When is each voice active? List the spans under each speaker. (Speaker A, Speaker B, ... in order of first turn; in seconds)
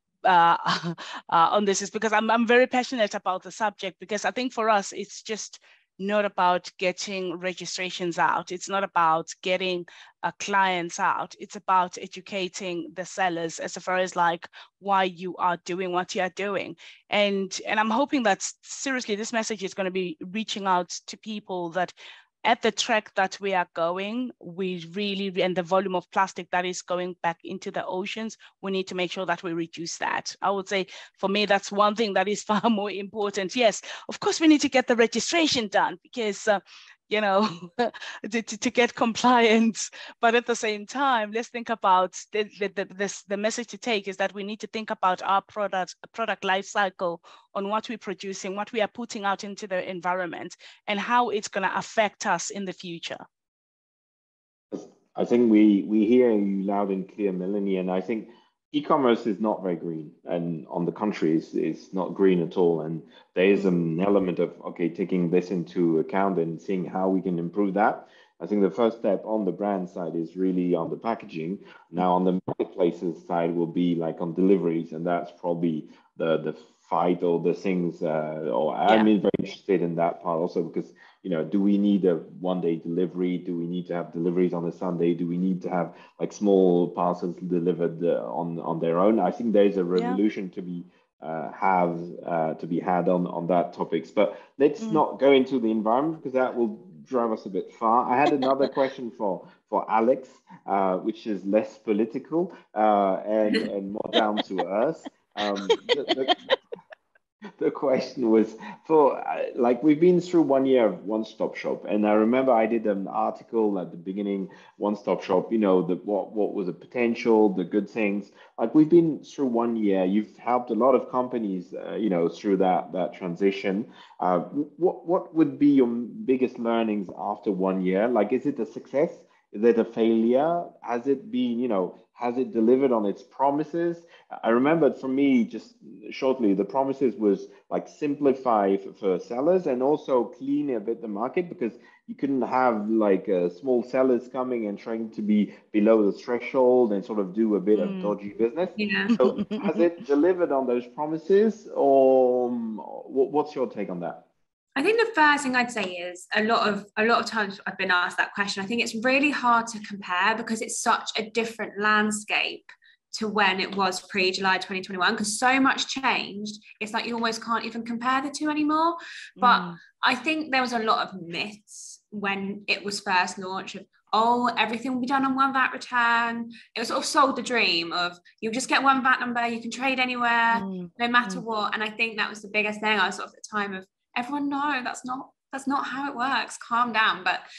Speaker A: 0.2-21.9, 22.4-53.2, 90.0-90.2, 147.8-148.1, 149.2-149.8, 169.4-169.8, 180.5-181.4
Speaker B: 54.7-106.5, 107.6-154.2
Speaker C: 148.8-149.2, 154.8-187.4